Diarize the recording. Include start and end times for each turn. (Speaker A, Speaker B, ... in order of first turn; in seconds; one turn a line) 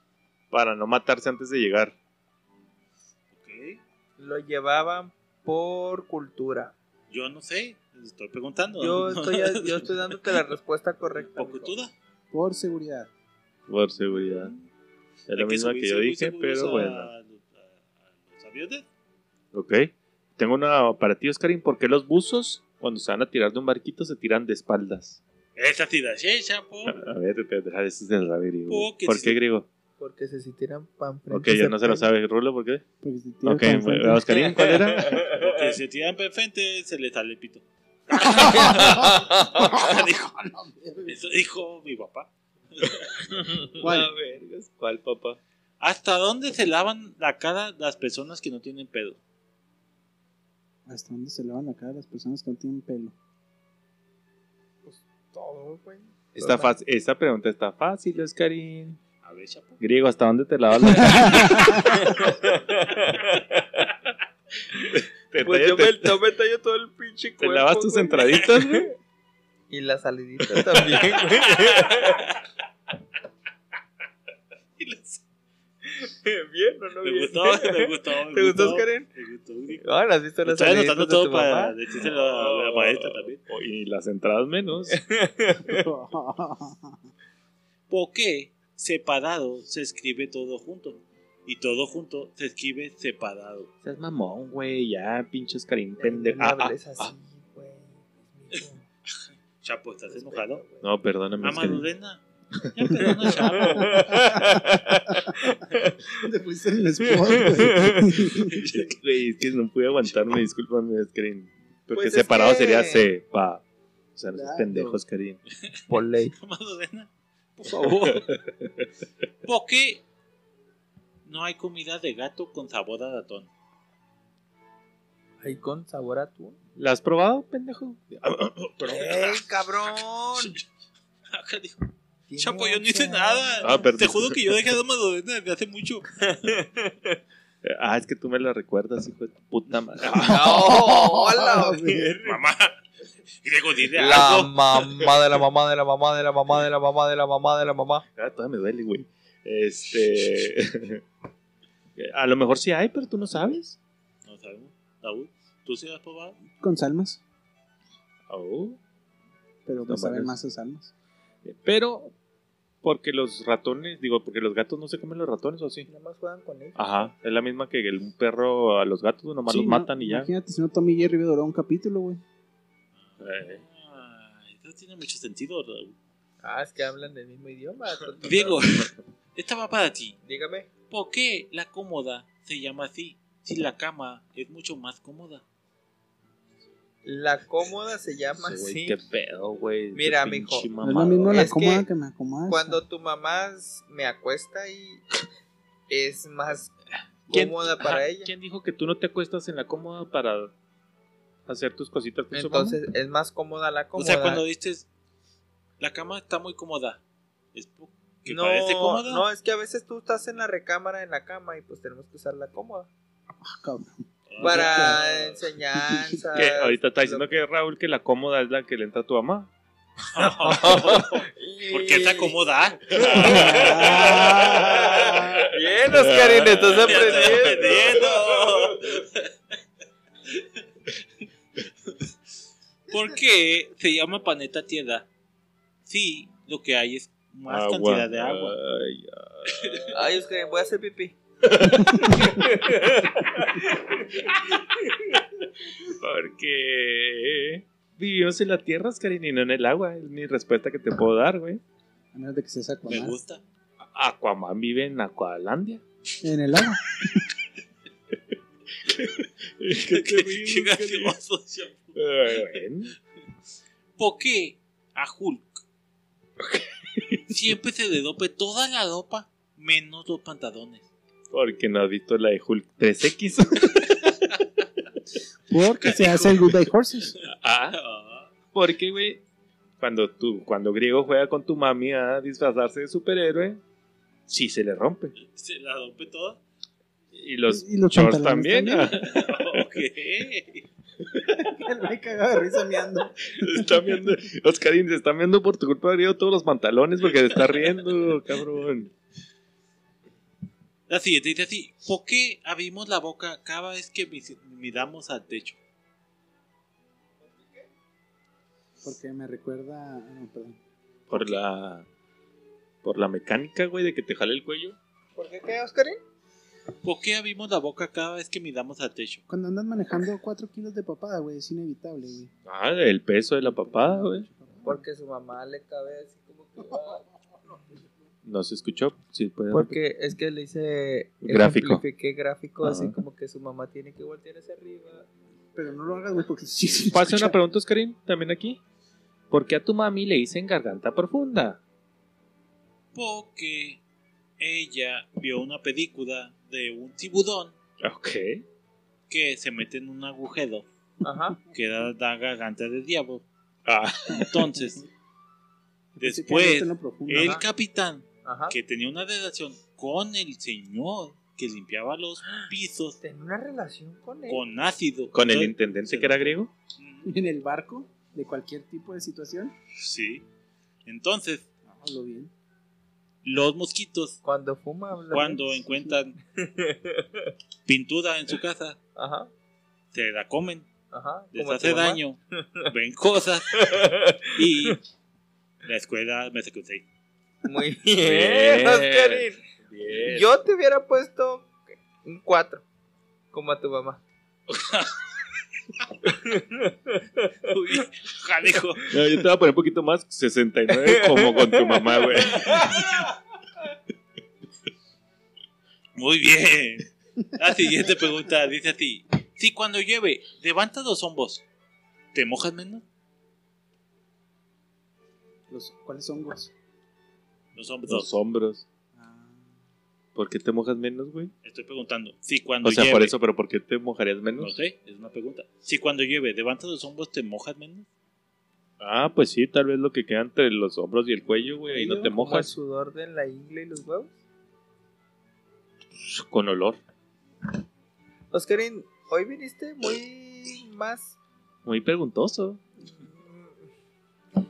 Speaker A: 0.5-1.9
Speaker B: 3.3-3.8
Speaker C: 4.2-6.7
Speaker B: 7.1-10.4
Speaker C: 8.8-11.8
Speaker B: 11.3-11.9
Speaker D: 12.3-13.1
Speaker A: 13.7-14.5
Speaker A: 15.3-17.1
Speaker B: 15.3-18.9
Speaker A: 19.5-25.2
Speaker B: 25.6-26.9
Speaker A: 26.9-29.6
Speaker B: 28.7-29.4
Speaker C: 30.0-32.0
Speaker A: 31.3-32.8
Speaker D: 33.0-34.4
Speaker A: 33.4-35.3
Speaker B: 34.3-40.5
Speaker C: 35.0-35.6
Speaker D: 38.1-41.2
Speaker C: 38.3-39.9
Speaker B: 41.0-42.9
Speaker A: 43.6-45.4
Speaker D: 43.8-44.1
Speaker B: 45.8-49.2
Speaker D: 50.9-53.1
Speaker C: 54.9-56.7
Speaker A: 56.3-59.0
Speaker B: 59.2-59.8
Speaker A: 59.8-62.2
Speaker D: 61.0-61.5
Speaker C: 61.5-63.7
Speaker A: 64.8-66.2
Speaker C: 65.4-68.9
Speaker A: 67.4-68.9
Speaker C: 69.7-72.3
Speaker A: 70.5-71.0
Speaker B: 71.6-72.2
Speaker B: 74.8-75.2
Speaker C: 75.9-79.1
Speaker B: 77.0-79.9
Speaker C: 79.8-81.8
Speaker B: 80.4-83.4
Speaker A: 82.0-85.0
Speaker C: 84.9-85.9
Speaker D: 85.7-87.0
Speaker B: 87.9-93.7
Speaker A: 93.8-97.1
Speaker C: 96.0-98.8
Speaker B: 99.6-100.6
Speaker C: 100.1-100.8
Speaker A: 100.8-101.8
Speaker B: 101.4-102.2
Speaker B: 102.7-104.2
Speaker C: 103.8-105.9
Speaker D: 103.9-104.5
Speaker D: 105.1-105.3
Speaker D: 106.1-108.6
Speaker C: 107.1-108.1
Speaker A: 108.4-113.6
Speaker B: 108.5-108.8
Speaker C: 111.9-113.1
Speaker A: 114.1-115.4
Speaker D: 114.3-115.0
Speaker C: 115.9-116.3
Speaker B: 116.3-118.3
Speaker B: 119.4-120.0
Speaker B: 121.2-123.5
Speaker C: 125.4-126.5
Speaker A: 126.8-129.2
Speaker C: 128.8-130.6
Speaker B: 131.3-131.8
Speaker C: 132.3-133.7
Speaker B: 132.4-136.5
Speaker A: 133.6-134.4
Speaker A: 137.6-140.8
Speaker D: 140.1-142.1
Speaker C: 140.2-142.4
Speaker B: 142.2-142.8
Speaker B: 143.4-144.8
Speaker C: 144.0-148.1
Speaker A: 148.2-151.0
Speaker A: 152.0-153.8
Speaker B: 154.2-156.4
Speaker D: 156.6-157.2
Speaker A: 158.3-158.8
Speaker D: 159.7-160.9
Speaker A: 159.8-160.3
Speaker A: 161.4-162.1
Speaker A: 162.8-165.9
Speaker C: 165.9-166.8
Speaker A: 166.8-170.3
Speaker D: 169.5-172.2
Speaker B: 173.0-175.9
Speaker A: 173.2-173.6
Speaker C: 176.4-178.6
Speaker B: 178.2-180.2
Speaker C: 180.2-180.7
Speaker B: 180.9-185.4
Speaker C: 187.0-189.0
Speaker A: 188.4-191.5
Speaker C: 189.9-190.7
Speaker D: 190.8-192.8
Speaker C: 191.3-191.9
Speaker C: 192.5-195.0
Speaker C: 195.9-196.7
Speaker C: 197.3-198.3
Speaker A: 197.3-200.5
Speaker A: 201.5-202.8
Speaker C: 202.3-204.4
Speaker B: 203.9-204.8
Speaker B: 205.8-207.0
Speaker B: 207.5-209.2
Speaker C: 208.3-212.9
Speaker D: 213.4-215.0
Speaker B: 214.3-215.4
Speaker C: 214.4-217.3
Speaker D: 215.9-216.2
Speaker A: 216.3-219.5
Speaker B: 220.1-225.2
Speaker C: 220.4-222.4
Speaker C: 222.9-228.1
Speaker A: 222.9-227.8
Speaker D: 223.2-225.1
Speaker B: 226.7-229.3
Speaker B: 232.9-235.1
Speaker B: 235.8-238.6
Speaker A: 237.5-239.9
Speaker B: 239.5-239.8
Speaker C: 239.9-241.2
Speaker A: 241.4-242.6
Speaker C: 242.0-244.1
Speaker C: 244.7-245.0
Speaker A: 245.8-251.6
Speaker D: 252.1-253.2
Speaker B: 252.9-253.4
Speaker A: 253.9-255.8
Speaker D: 256.2-257.1
Speaker A: 258.9-261.1
Speaker B: 259.8-262.6
Speaker A: 261.9-262.9
Speaker B: 264.0-265.6
Speaker A: 266.4-267.3
Speaker B: 267.3-270.9
Speaker A: 271.3-274.3
Speaker D: 275.5-277.1
Speaker B: 275.8-278.3
Speaker A: 277.3-277.8
Speaker A: 278.5-279.2
Speaker A: 279.8-283.6
Speaker A: 284.3-285.1
Speaker B: 285.2-286.4
Speaker A: 287.1-289.3
Speaker D: 287.5-289.0
Speaker B: 288.9-290.6
Speaker D: 291.2-294.0
Speaker A: 293.3-298.9
Speaker B: 300.9-305.6
Speaker D: 308.8-310.6
Speaker A: 311.1-311.9
Speaker B: 311.1-311.4
Speaker A: 312.8-314.8
Speaker C: 315.1-316.0
Speaker B: 316.8-319.2
Speaker D: 319.3-322.3
Speaker A: 322.4-324.3
Speaker D: 323.4-324.8
Speaker C: 324.6-327.0
Speaker A: 328.2-329.8
Speaker C: 329.5-335.1
Speaker A: 331.2-331.8
Speaker A: 332.6-333.0
Speaker D: 335.5-337.4
Speaker A: 336.9-338.6
Speaker A: 339.3-341.6
Speaker B: 342.9-343.8
Speaker B: 344.4-347.5
Speaker A: 347.8-348.4
Speaker B: 349.1-350.7
Speaker C: 351.0-351.4
Speaker B: 351.5-353.2
Speaker A: 353.6-354.5
Speaker B: 354.2-354.8
Speaker D: 355.9-357.4
Speaker B: 356.0-363.0
Speaker C: 357.2-357.4
Speaker C: 358.2-358.5
Speaker C: 363.0-364.4
Speaker B: 364.3-367.1
Speaker A: 365.1-366.5
Speaker D: 367.0-369.5
Speaker B: 369.8-370.2
Speaker B: 370.9-371.4
Speaker D: 371.6-372.3
Speaker B: 373.2-374.2
Speaker C: 374.2-375.5
Speaker B: 375.1-376.2
Speaker C: 376.4-377.1
Speaker B: 377.6-378.8
Speaker C: 378.9-379.3
Speaker B: 379.9-380.7
Speaker C: 380.9-382.0
Speaker B: 381.3-383.7
Speaker C: 383.6-384.3
Speaker B: 384.3-384.8
Speaker B: 385.6-386.8
Speaker C: 387.4-389.4
Speaker A: 388.0-390.3
Speaker C: 390.0-392.6
Speaker C: 393.3-394.0
Speaker B: 394.6-394.9
Speaker C: 396.0-397.3
Speaker B: 397.4-398.9
Speaker A: 398.9-403.0
Speaker C: 400.9-402.3
Speaker B: 405.9-411.4
Speaker B: 412.1-412.8
Speaker D: 415.5-416.5
Speaker B: 417.6-418.1
Speaker A: 417.9-418.6
Speaker D: 418.9-419.5
Speaker A: 420.1-421.3
Speaker B: 421.4-423.1
Speaker A: 422.6-424.5
Speaker B: 424.4-427.9
Speaker A: 428.8-432.5
Speaker C: 431.7-434.1
Speaker A: 436.0-436.8
Speaker C: 438.3-441.1
Speaker A: 441.6-442.6
Speaker C: 442.8-443.6